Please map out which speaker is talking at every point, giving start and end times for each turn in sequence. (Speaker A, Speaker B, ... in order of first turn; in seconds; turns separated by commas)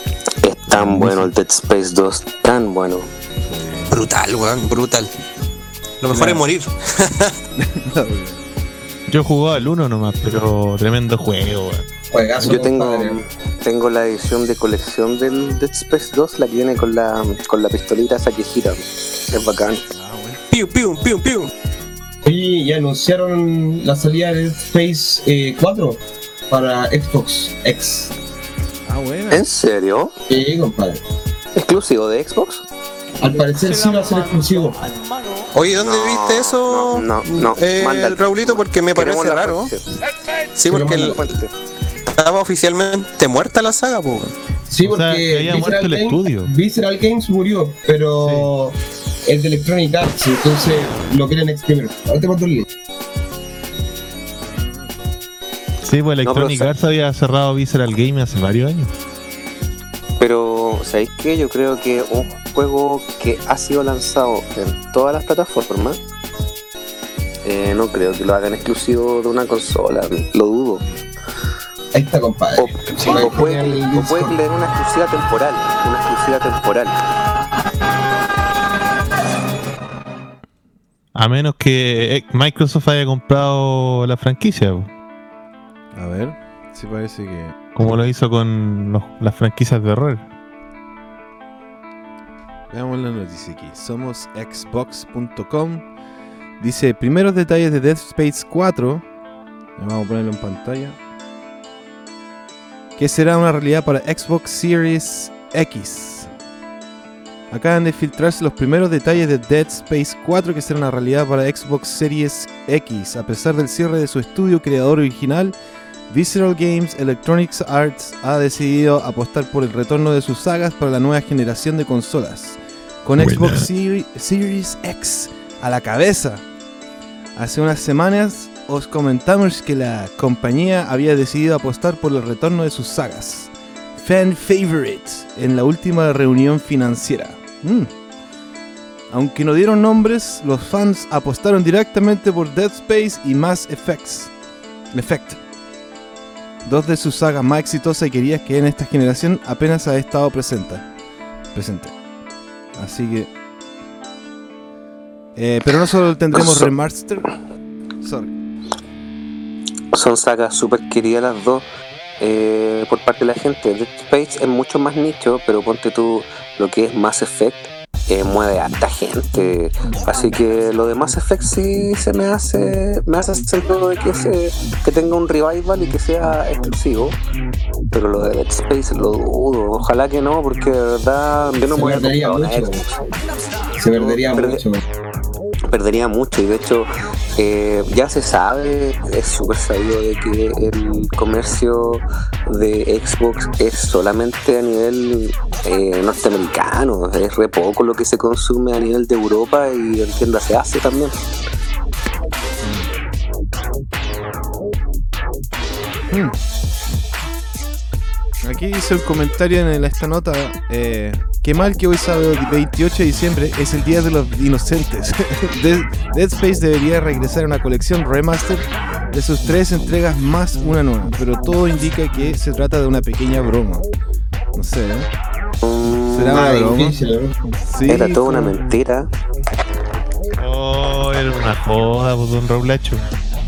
Speaker A: 0.4-3.1, Speaker B: 0.8-1.2, Speaker C: 3.5-3.9, Speaker D: 3.9-5.1, Speaker D: 6.0-7.3, Speaker C: 6.1-6.4, Speaker C: 7.6-8.4, Speaker B: 9.1-11.9, Speaker E: 12.1-13.2, Speaker A: 12.4-19.8, Speaker C: 19.9-20.4, Speaker D: 20.5-21.5, Speaker E: 22.2-28.1, Speaker C: 28.9-29.4, Speaker A: 29.3-30.1, Speaker E: 30.3-31.0, Speaker A: 31.6-32.6, Speaker E: 33.2-34.8, Speaker D: 35.5-39.7, Speaker A: 35.8-39.8, Speaker D: 40.5-41.2, Speaker E: 40.7-41.2, Speaker A: 40.8-41.5, Speaker D: 42.0-44.3, Speaker E: 44.7-52.6, Speaker B: 44.8-46.5, Speaker B: 48.2-48.5, Speaker B: 55.8-58.9, Speaker A: 56.2-56.7, Speaker A: 60.2-66.0, Speaker A: 67.4-70.8, Speaker E: 71.9-74.4, Speaker A: 72.6-77.0, Speaker B: 81.1-84.9, Speaker C: 85.9-87.5, Speaker B: 87.7-90.2, Speaker C: 92.7-95.8, Speaker C: 96.6-99.0, Speaker C: 99.8-101.0, Speaker C: 103.0-106.3, Speaker C: 107.5-115.5, Speaker C: 116.1-126.4, Speaker B: 123.2-123.7, Speaker C: 127.3-137.9, Speaker C: 139.1-144.3, Speaker C: 144.9-145.4, Speaker C: 146.7-150.8, Speaker C: 151.5-151.9, Speaker C: 152.8-153.3, Speaker C: 155.3-157.2, Speaker A: 156.3-156.7, Speaker C: 158.0-158.3, Speaker A: 159.9-161.6, Speaker A: 162.2-177.2, Speaker A: 177.9-183.1, Speaker E: 181.6-182.8, Speaker E: 183.8-184.8, Speaker A: 183.9-184.6, Speaker A: 185.7-201.2, Speaker C: 202.6-202.9, Speaker C: 206.1-206.4, Speaker C: 208.4-223.9, Speaker C: 224.6-225.1, Speaker A: 225.6-226.6, Speaker C: 226.1-226.9, Speaker E: 226.3-227.3, Speaker C: 227.7-228.5, Speaker A: 227.9-229.1, Speaker B: 230.4-233.0